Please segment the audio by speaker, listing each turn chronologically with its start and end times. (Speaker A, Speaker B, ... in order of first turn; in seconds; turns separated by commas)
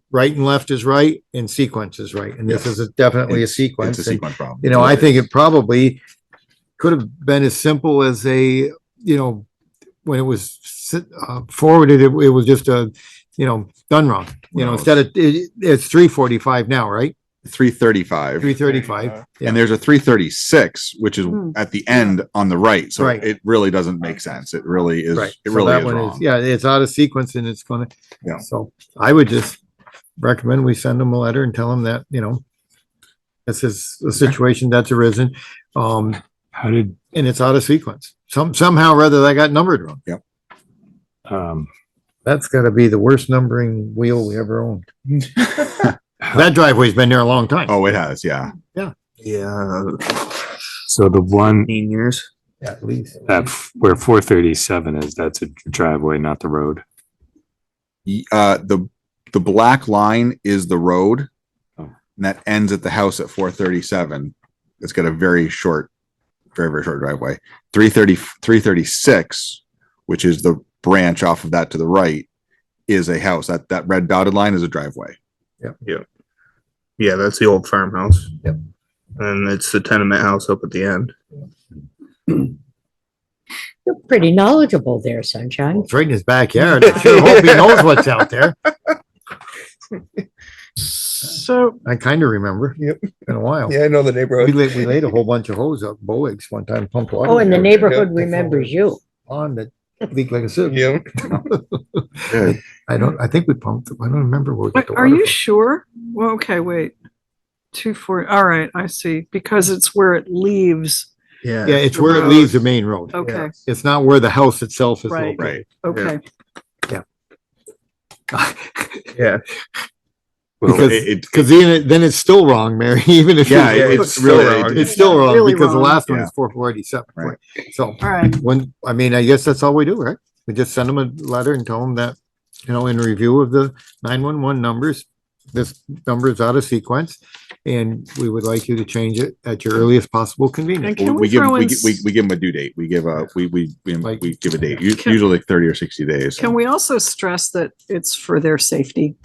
Speaker A: 0.1-6.0, Speaker B: 3.3-5.2, Speaker A: 6.8-9.5, Speaker A: 10.1-17.2, Speaker B: 14.5-15.0, Speaker B: 17.4-18.5, Speaker A: 18.4-19.6, Speaker B: 19.4-26.2, Speaker A: 23.0-23.2, Speaker A: 25.1-29.6, Speaker A: 30.2-32.4, Speaker A: 33.5-36.2, Speaker C: 36.5-37.0, Speaker A: 37.1-40.0, Speaker C: 41.3-41.7, Speaker A: 42.2-44.9, Speaker B: 45.5-45.9, Speaker A: 46.3-47.8, Speaker B: 47.7-48.5, Speaker D: 49.2-50.4, Speaker C: 50.9-51.7, Speaker D: 51.6-52.3, Speaker A: 52.6-53.2, Speaker C: 53.3-56.8, Speaker B: 58.1-61.3, Speaker B: 62.2-65.9, Speaker B: 66.5-72.3, Speaker B: 72.9-75.2, Speaker D: 77.0-78.3, Speaker D: 79.2-81.1, Speaker E: 83.9-85.9, Speaker A: 85.8-88.6, Speaker D: 86.8-87.9, Speaker F: 90.8-91.8, Speaker A: 91.8-93.8, Speaker D: 92.8-93.2, Speaker D: 93.7-94.9, Speaker A: 94.4-98.7, Speaker E: 97.2-99.0, Speaker D: 97.3-98.1, Speaker A: 99.2-105.3, Speaker D: 100.7-101.3, Speaker B: 102.3-102.6, Speaker F: 104.8-106.9, Speaker F: 107.7-111.1, Speaker D: 111.4-112.5, Speaker A: 111.7-115.6, Speaker F: 111.9-112.5, Speaker F: 113.1-113.5, Speaker D: 113.2-113.5, Speaker F: 115.1-116.2, Speaker B: 115.4-115.6, Speaker D: 115.9-116.2, Speaker A: 118.3-119.2, Speaker D: 119.2-119.4, Speaker A: 120.6-132.2, Speaker B: 120.7-121.5, Speaker B: 123.5-125.2, Speaker D: 123.7-124.9, Speaker F: 124.8-126.0, Speaker F: 128.0-128.4, Speaker A: 132.7-141.0, Speaker F: 140.8-142.0, Speaker B: 141.0-146.5, Speaker F: 146.4-149.2